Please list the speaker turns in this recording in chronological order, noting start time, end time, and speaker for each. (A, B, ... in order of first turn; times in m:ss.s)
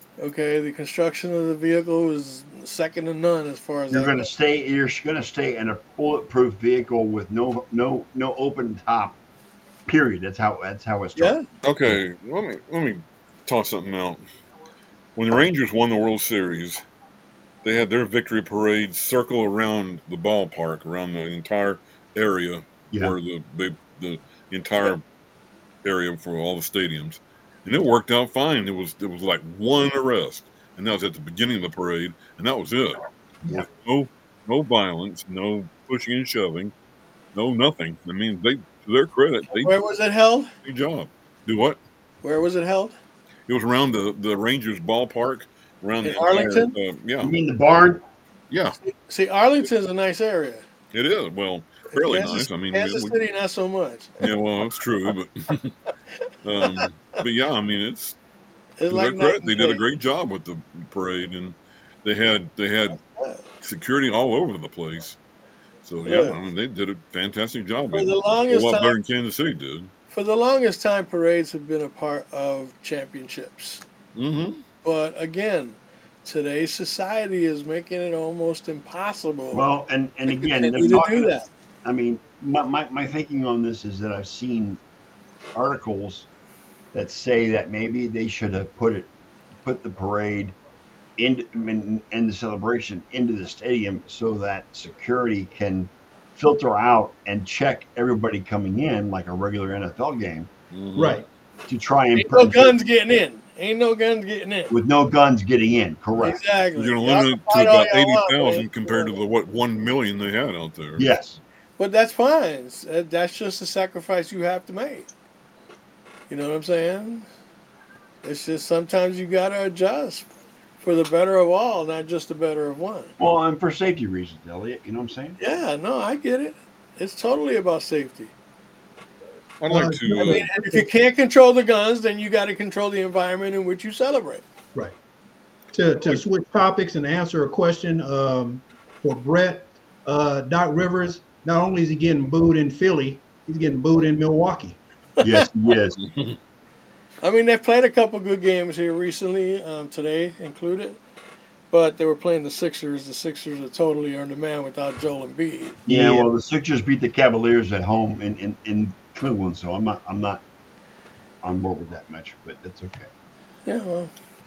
0:00.2-0:04.3 A
0:03.9-0:09.2 B
0:09.9-0:12.0 B
0:11.2-0:11.4 A
0:11.6-0:14.2 C
0:15.2-0:16.8 C
0:17.6-0:25.0 C
0:25.8-0:36.7 C
0:37.3-0:39.7 C
0:39.5-0:40.5 A
0:40.6-0:41.8 C
0:42.2-0:42.9 A
0:43.5-0:47.3 C
0:46.0-0:46.7 A
0:47.2-0:48.0 B
0:48.5-0:48.8 C
0:48.8-0:50.6 A
0:50.9-0:53.1 C
0:51.9-0:54.3 A
0:54.2-0:55.7 C
0:56.4-0:58.2 C
0:56.6-0:56.9 A
0:58.8-0:59.8 A
0:58.9-1:03.0 C
1:03.2-1:03.4 A
1:03.6-1:05.2 C
1:05.8-1:09.9 C
1:06.0-1:06.4 A
1:07.9-1:08.9 A
1:10.1-1:13.8 A
1:14.1-1:14.6 C
1:14.8-1:19.7 A
1:19.5-1:24.8 B
1:20.3-1:21.5 A
1:25.5-1:26.3 B
1:26.9-1:29.1 B
1:29.6-1:30.5 B
1:31.2-1:40.5 B
1:40.7-1:41.2 C
1:41.0-1:41.2 D
1:41.7-1:42.8 B
1:42.1-1:44.7 A
1:44.7-1:46.4 B
1:46.2-1:49.2 A
1:46.7-1:51.1 C
1:51.0-1:51.4 B
1:51.8-1:55.1 A
1:56.3-1:57.3 A
1:58.2-2:00.3 A
2:00.8-2:03.1 A
2:03.2-2:05.4 B
2:05.4-2:08.3 A
2:09.6-2:10.5 C
2:09.7-2:10.8 D
2:10.1-2:14.4 A
2:15.7-2:24.8 D
2:25.2-2:26.0 B
2:26.0-2:26.4 C
2:27.2-2:31.0 A
2:31.7-2:36.3 A
2:35.9-2:40.4 B
2:41.4-2:43.1 B
2:43.6-2:44.1 A